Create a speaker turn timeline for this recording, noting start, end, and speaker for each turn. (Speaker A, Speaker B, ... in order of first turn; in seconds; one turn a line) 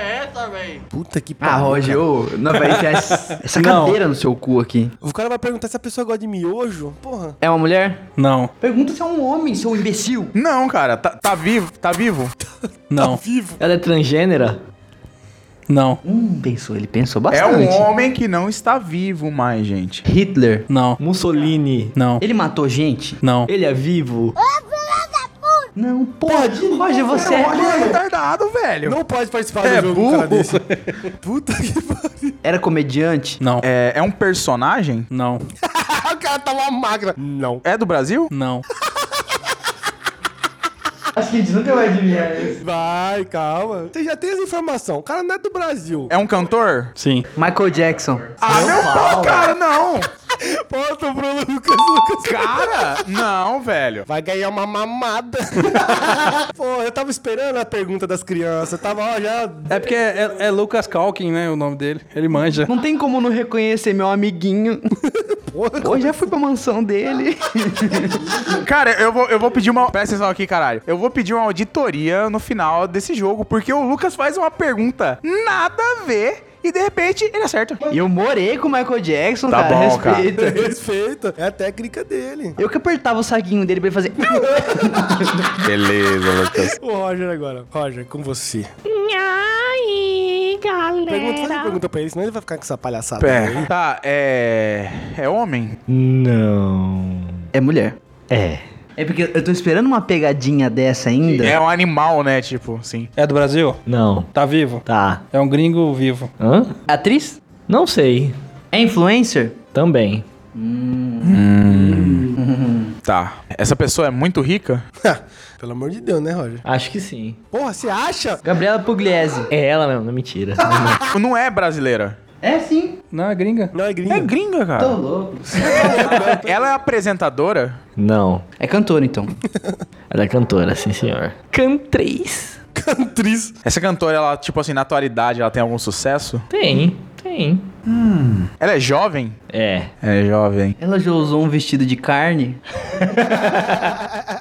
Speaker A: 0.9-2.0
Speaker B: 1.4-4.9
Speaker C: 2.5-4.0
Speaker A: 5.0-7.4
Speaker B: 7.4-8.0
Speaker C: 8.2-8.5
Speaker B: 8.6-10.3
Speaker D: 10.3-12.3
Speaker C: 12.9-13.2
Speaker A: 12.9-13.6
Speaker E: 13.6-14.6
Speaker C: 15.7-16.0
Speaker B: 16.0-17.9
Speaker D: 17.3-20.1
Speaker B: 20.1-20.6
Speaker C: 20.7-21.0
Speaker E: 21.0-21.9
Speaker C: 21.9-22.2
Speaker B: 22.2-23.2
Speaker C: 23.2-23.5
Speaker E: 23.5-24.4
Speaker B: 25.8-28.0
Speaker A: 26.3-27.9
Speaker D: 27.1-29.0
Speaker A: 28.9-30.6
Speaker C: 29.6-30.9
Speaker D: 29.8-30.4
Speaker A: 31.2-32.4
Speaker B: 32.4-33.4
Speaker C: 33.4-33.6
Speaker D: 33.6-35.1
Speaker C: 35.1-35.4
Speaker A: 35.6-37.6
Speaker D: 37.6-38.3
Speaker C: 38.3-38.6
Speaker B: 41.1-42.6
Speaker A: 42.6-46.1
Speaker D: 46.1-46.9
Speaker C: 47.0-47.3
Speaker B: 47.4-49.2
Speaker D: 48.4-50.1
Speaker E: 48.5-49.5
Speaker A: 50.4-53.0
Speaker D: 52.2-54.1
Speaker A: 54.1-59.8
Speaker C: 59.7-62.7
Speaker B: 62.7-64.9
Speaker A: 65.2-66.2
Speaker B: 65.8-68.3
Speaker D: 68.6-77.8
Speaker B: 77.9-80.7
Speaker D: 79.5-80.3
Speaker A: 80.3-82.6
Speaker B: 82.6-85.5
Speaker A: 84.4-85.3
Speaker D: 85.6-86.8
Speaker A: 86.7-88.7
Speaker E: 88.9-91.8
Speaker A: 91.1-93.7
Speaker D: 93.2-95.8
Speaker E: 95.9-97.5
Speaker B: 97.5-98.0
Speaker E: 98.3-98.6
Speaker B: 99.0-101.6
Speaker D: 101.3-103.1
Speaker C: 103.2-103.8
Speaker E: 103.9-104.3
Speaker C: 104.3-106.3
Speaker E: 104.9-105.2
Speaker E: 106.4-106.7
Speaker B: 106.9-107.4
Speaker E: 107.7-108.3
Speaker B: 108.7-109.6
Speaker E: 109.7-110.2
Speaker B: 110.5-111.5
Speaker D: 111.3-112.3
Speaker B: 112.2-113.0
Speaker D: 113.0-114.8
Speaker A: 115.0-116.6
Speaker E: 116.7-117.4
Speaker A: 117.5-118.4
Speaker B: 118.4-119.5
Speaker E: 119.5-121.0
Speaker D: 121.1-122.2
Speaker B: 122.4-123.0
Speaker C: 123.1-123.7
Speaker A: 123.7-124.3
Speaker D: 124.1-125.0
Speaker B: 124.8-126.2
Speaker A: 125.5-126.7
Speaker D: 126.2-127.8
Speaker E: 128.0-128.4
Speaker B: 128.6-129.3
Speaker E: 130.1-132.6
Speaker A: 132.8-133.6
Speaker D: 133.7-136.5
Speaker E: 136.5-137.7
Speaker D: 137.9-139.4
Speaker E: 139.5-139.9
Speaker D: 140.0-140.8
Speaker B: 140.8-142.6
Speaker D: 143.1-143.8